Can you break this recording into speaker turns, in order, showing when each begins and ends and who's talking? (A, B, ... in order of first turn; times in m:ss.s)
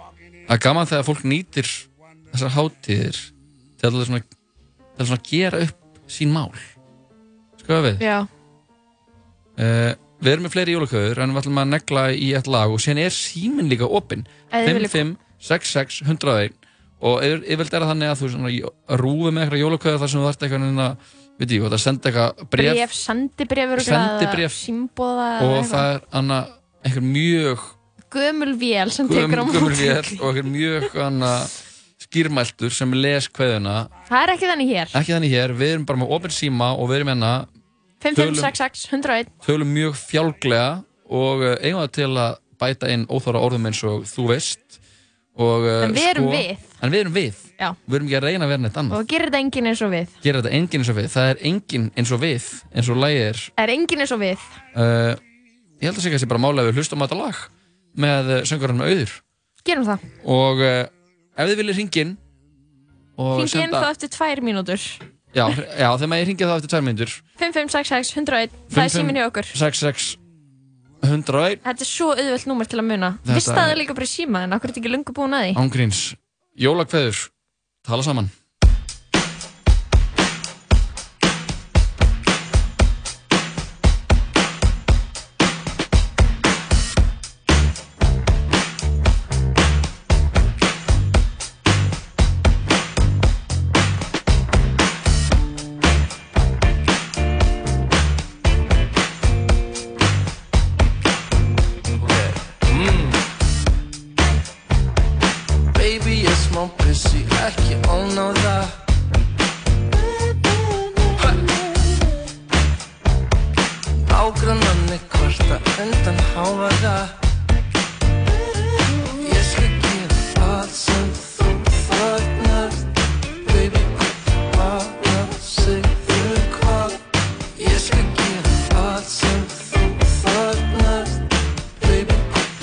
0:00.5-0:04.3 A
0:05.0-0:06.7 A
0:07.6-0:08.0 A
0:08.0-0:08.3 B
0:09.6-0:22.8 A
0:14.5-0:15.0 B
0:22.6-0:25.9 B
0:23.8-0:24.6 A
0:25.4-0:27.8 A
0:28.1-0:30.2 B
0:29.0-0:33.9 A
0:34.1-0:35.0 B
0:34.9-0:37.5 A
0:38.0-0:39.3 B
0:38.2-0:38.5 A
0:39.4-0:44.8 A
0:45.4-0:49.0 A
0:45.8-0:46.7 B
0:48.9-0:50.2 B
0:50.2-0:53.5 A
0:53.6-0:54.6 B
0:54.7-0:55.2 A
0:55.8-0:59.2 A
0:59.6-1:00.1 B
1:00.2-1:02.2 A
1:03.2-1:03.9 A
1:03.4-1:05.0 B
1:05.3-1:07.2 A
1:07.4-1:09.6 B
1:08.7-1:10.2 A
1:11.0-1:11.6 A
1:11.6-1:15.6 B
1:13.2-1:13.8 A
1:15.6-1:17.3 A
1:17.8-1:18.3 A
1:45.8-1:48.7 C
1:54.2-1:57.1 C
1:59.5-2:02.8 C
2:03.5-2:03.8 C
2:04.6-2:06.8 C
2:07.7-2:08.2 C
2:08.9-2:11.1 C